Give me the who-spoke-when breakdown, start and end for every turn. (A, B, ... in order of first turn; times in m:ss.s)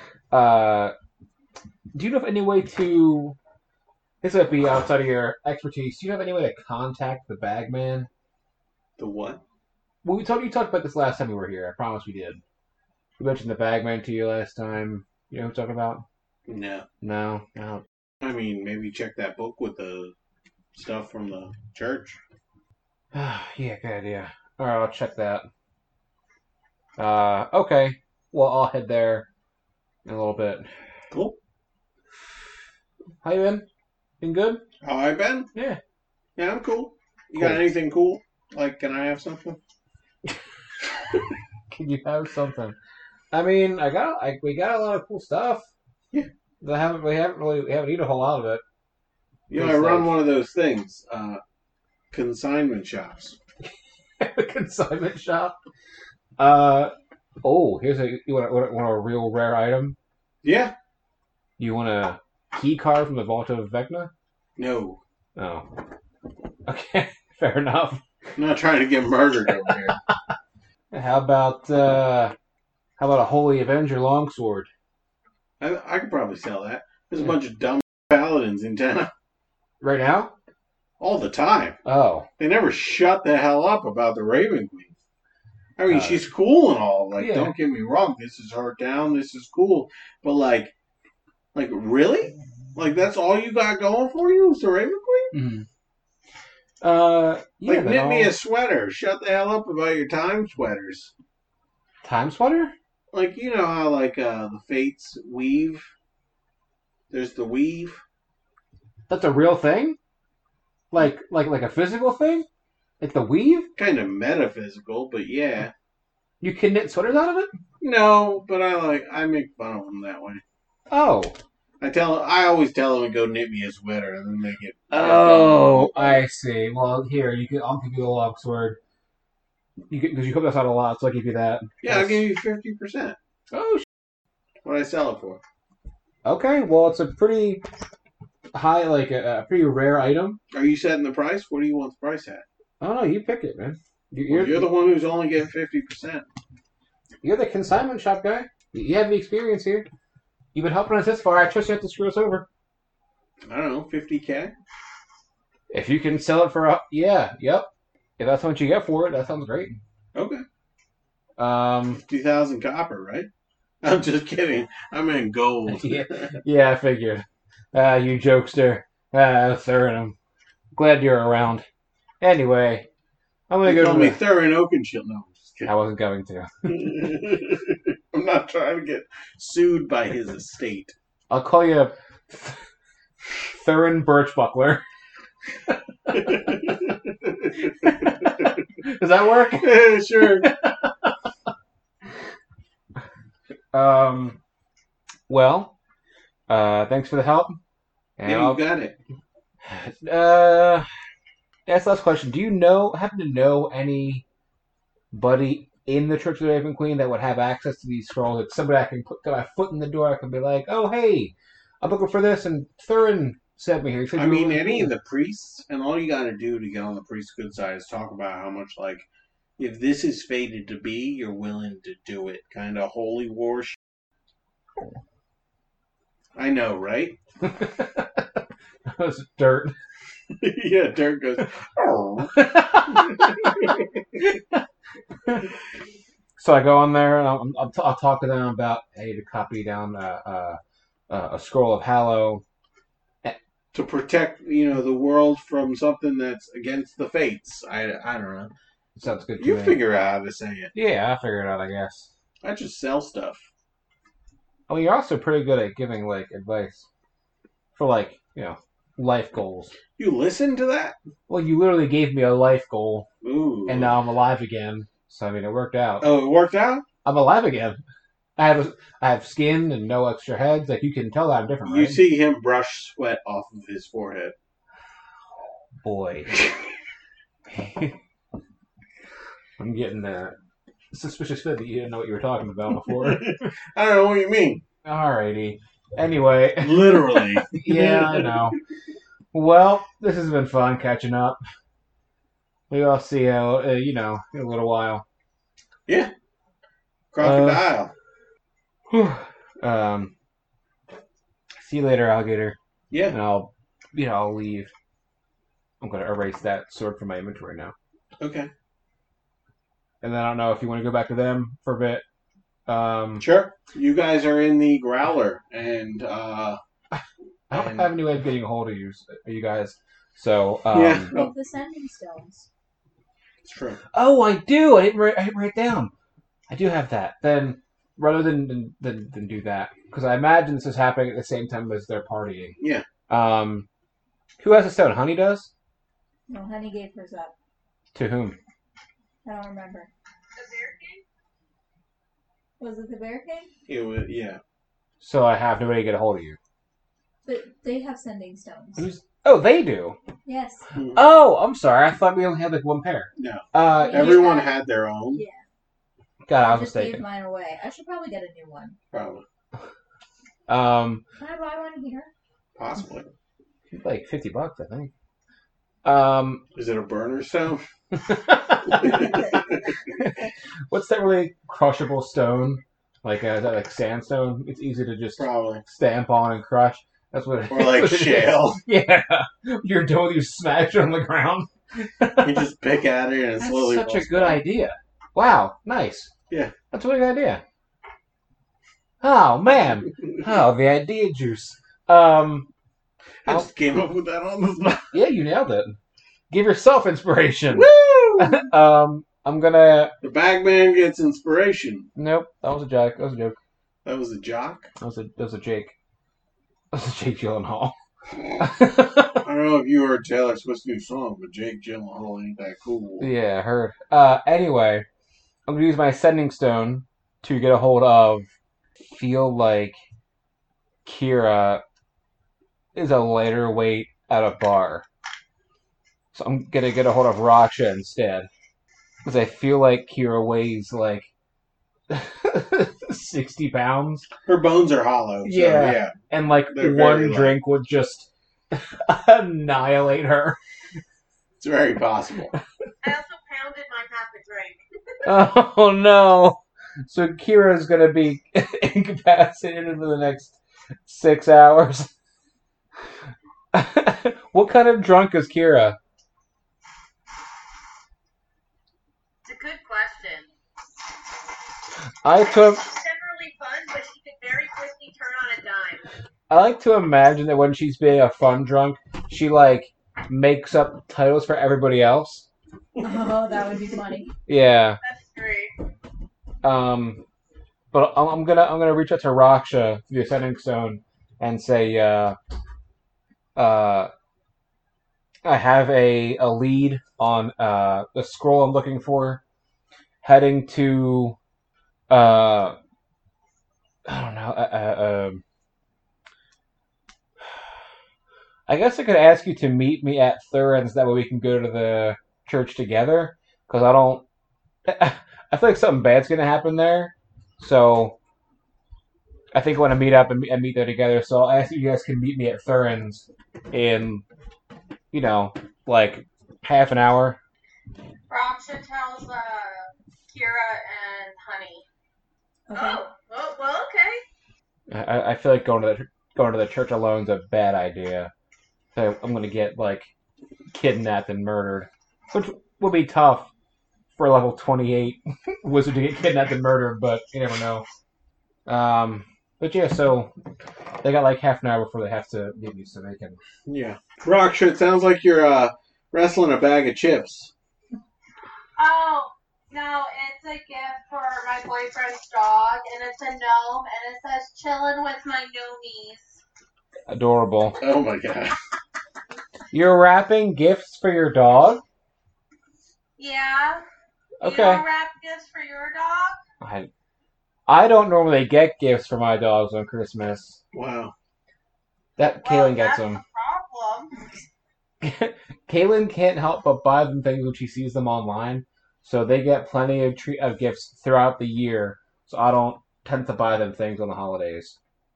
0:00.3-0:00.9 A
0:01.9-0:03.4 A
0:04.2-0:08.1 A
0:09.0-0:09.4 B
0:10.0-0:12.4 A
0:13.2-0:16.0 A
0:16.5-0:16.8 B
0:17.0-0:17.8 A
0:18.2-0:20.1 B
0:20.7-0:22.2 B
0:23.1-0:25.5 A
0:27.0-0:29.3 A
0:30.0-0:30.7 A
0:31.1-0:31.4 B
0:33.2-0:33.6 A
0:34.2-0:34.6 A
0:34.8-0:35.5 B
0:36.4-0:39.6 B
0:37.4-0:37.7 A
0:41.7-0:42.8 A
0:43.3-0:45.7 A
0:46.6-0:48.6 A
0:49.5-0:51.4 B
0:49.5-0:50.2 A
0:52.1-0:53.4 B
0:54.2-0:55.5 A
0:56.4-1:00.0 A
1:00.4-1:00.7 B
1:01.6-1:04.1 A
1:04.6-1:05.0 B
1:05.4-1:05.7 A
1:06.6-1:08.0 A
1:08.4-1:10.0 B
1:10.9-1:12.3 A
1:13.0-1:14.7 A
1:15.6-1:19.1 B
1:19.8-1:20.3 A
1:21.0-1:21.8 B
1:21.8-1:22.3 A
1:22.4-1:24.9 B
1:25.8-1:30.7 B
1:25.9-1:26.2 A
1:27.2-1:27.5 A
1:31.5-1:35.3 B
1:35.3-1:35.6 A
1:36.8-1:38.3 A
1:37.6-1:41.1 B
1:42.0-1:42.7 A
1:43.1-1:45.9 B
1:47.1-1:48.0 B
1:49.1-1:50.0 A
1:50.9-1:52.4 A
1:53.0-1:53.7 A
1:53.8-1:55.7 B
1:56.4-1:57.5 A
1:57.8-2:00.4 B
2:00.9-2:01.3 A
2:01.8-2:06.2 B
2:04.9-2:08.8 A
2:09.9-2:12.2 A
2:11.8-2:13.2 B
2:13.5-2:13.8 A
2:14.6-2:15.4 B
2:16.2-2:17.6 A
2:18.5-2:20.4 A
2:20.5-2:22.4 B
2:22.8-2:24.7 A
2:24.3-2:26.2 B
2:27.2-2:29.9 A
2:30.5-2:32.5 A
2:33.4-2:34.5 B
2:35.7-2:37.7 A
2:38.2-2:39.8 A
2:40.1-2:40.4 B
2:41.4-2:42.0 A
2:42.0-2:43.3 B
2:43.8-2:46.3 B
2:45.7-2:50.2 A
2:50.7-2:51.6 A
2:52.2-2:52.9 A
2:53.5-2:54.2 A
2:53.6-2:55.7 B
2:55.6-2:56.9 A
2:56.7-3:00.9 B
3:01.3-3:02.6 A
3:03.5-3:04.8 A
3:06.1-3:06.4 A
3:06.1-3:08.3 B
3:07.8-3:11.1 A
3:09.6-3:10.5 B
3:13.7-3:14.4 A
3:15.3-3:15.7 A
3:16.5-3:17.6 A
3:18.2-3:18.6 A
3:18.2-3:19.0 B
3:19.6-3:20.9 A
3:21.7-3:24.2 A
3:25.1-3:34.9 A
3:34.1-3:39.0 B
3:39.6-3:43.8 B
3:46.3-3:47.2 B
3:47.4-3:48.3 A
3:48.9-3:49.7 A
3:50.4-3:53.8 B
3:52.3-3:53.6 A
3:54.2-3:54.6 A
3:56.4-4:02.4 A
4:03.7-4:08.5 B
4:09.0-4:09.8 A
4:09.4-4:10.7 B
4:10.7-4:12.1 A
4:12.4-4:13.4 B
4:14.7-4:16.8 A
4:17.7-4:19.7 A
4:20.0-4:21.0 B
4:21.3-4:23.1 A
4:23.2-4:23.9 B
4:23.7-4:26.1 A
4:26.0-4:26.8 B
4:27.0-4:27.8 A
4:28.4-4:32.0 A
4:31.6-4:34.3 B
4:35.8-4:36.4 A
4:37.5-4:38.0 A
4:39.6-4:40.4 A
4:40.9-4:43.4 A
4:42.9-4:44.6 B
4:44.8-4:48.6 A
4:46.6-4:48.5 B
4:49.3-4:51.4 A
4:52.7-4:55.0 A
4:55.9-4:56.1 B
4:57.1-4:57.9 B
4:57.2-4:57.7 A
4:58.9-5:00.1 A
5:01.6-5:02.6 A
5:02.9-5:03.2 B
5:03.1-5:04.7 A
5:05.8-5:07.7 A
5:08.2-5:08.5 B
5:10.0-5:12.0 A
5:12.7-5:13.2 A
5:13.2-5:16.6 B
5:16.9-5:21.1 A
5:17.5-5:17.9 B
5:20.7-5:21.3 B
5:21.1-5:22.5 C
5:23.4-5:23.8 B
5:23.9-5:25.9 A
5:26.5-5:32.6 A
5:32.6-5:32.8 B
5:33.1-5:33.7 A
5:34.4-5:35.5 A
5:36.3-5:37.3 C
5:37.9-5:38.4 A
5:39.2-5:39.9 C
5:40.3-5:41.0 D
5:42.6-5:43.5 C
5:43.7-5:44.4 B
5:45.0-5:46.4 A
5:47.2-5:48.8 C
5:48.8-5:50.0 A
5:50.2-5:50.6 C
5:50.7-5:51.0 B
5:50.9-5:54.3 A
5:53.2-5:55.2 B
5:53.6-5:54.6 C
5:55.1-5:55.4 C
5:56.2-5:57.0 A
5:56.4-5:58.8 C
5:58.9-5:59.2 B
6:00.5-6:01.0 A
6:01.2-6:02.1 C
6:02.6-6:03.1 B
6:03.7-6:04.9 A
6:05.8-6:06.4 A
6:06.5-6:07.6 B
6:07.9-6:09.2 A
6:08.7-6:09.6 B
6:10.7-6:22.4 A
6:15.2-6:15.6 B
6:17.5-6:18.6 B
6:22.2-6:24.4 B
6:23.4-6:26.1 A
6:26.7-6:27.4 A
6:29.0-6:32.5 A
6:33.2-6:35.0 B
6:34.9-6:35.8 A
6:36.3-6:39.9 A
6:37.5-6:38.4 B
6:40.0-6:41.9 B
6:42.0-6:43.4 A
6:43.8-6:44.7 B
6:44.8-6:45.7 A
6:46.7-6:47.7 A
6:48.4-6:49.2 A
6:49.2-6:53.1 B
6:53.0-6:54.8 A
6:55.5-6:58.3 A
6:58.8-6:59.8 A
7:00.8-7:01.6 A
7:02.7-7:04.8 A
7:06.1-7:08.3 A
7:09.0-7:11.1 A
7:11.9-7:14.1 A
7:14.2-7:15.9 B
7:15.2-7:20.4 A
7:16.5-7:17.4 B
7:21.4-7:22.3 B
7:22.8-7:24.6 D
7:25.0-7:31.9 A
7:33.5-7:35.8 A
7:39.2-7:40.3 D
7:42.0-7:42.6 A
7:42.1-7:45.8 D
7:46.3-7:52.3 A
7:52.8-7:54.1 C
7:54.3-7:54.8 A
7:54.8-7:55.5 D
7:56.4-7:57.0 A
7:57.7-8:02.2 A
8:03.4-8:03.9 A
8:05.2-8:09.2 A
8:10.0-8:11.2 A
8:11.9-8:12.6 A
8:13.8-8:15.2 A
8:18.5-8:24.0 A
8:24.6-8:28.0 A
8:29.3-8:34.0 A
8:34.9-8:37.2 A
8:38.1-8:41.6 E
8:42.5-8:42.8 C
8:42.5-8:44.0 D
8:44.7-8:48.1 A
8:48.7-8:49.9 A
8:50.5-8:53.3 A
8:53.9-8:57.6 A
8:58.4-9:00.1 A
9:00.8-9:03.2 A
9:03.5-9:07.3 B
9:08.6-9:16.2 E
9:16.9-9:17.6 A
9:17.6-9:18.4 B
9:19.5-9:21.6 A
9:23.0-9:23.6 E
9:24.2-9:24.6 A
9:24.2-9:26.2 E
9:26.4-9:26.7 A
9:27.5-9:30.4 A
9:30.5-9:30.9 B
9:32.0-9:33.0 A
9:32.2-9:33.9 E
9:34.8-9:44.6 A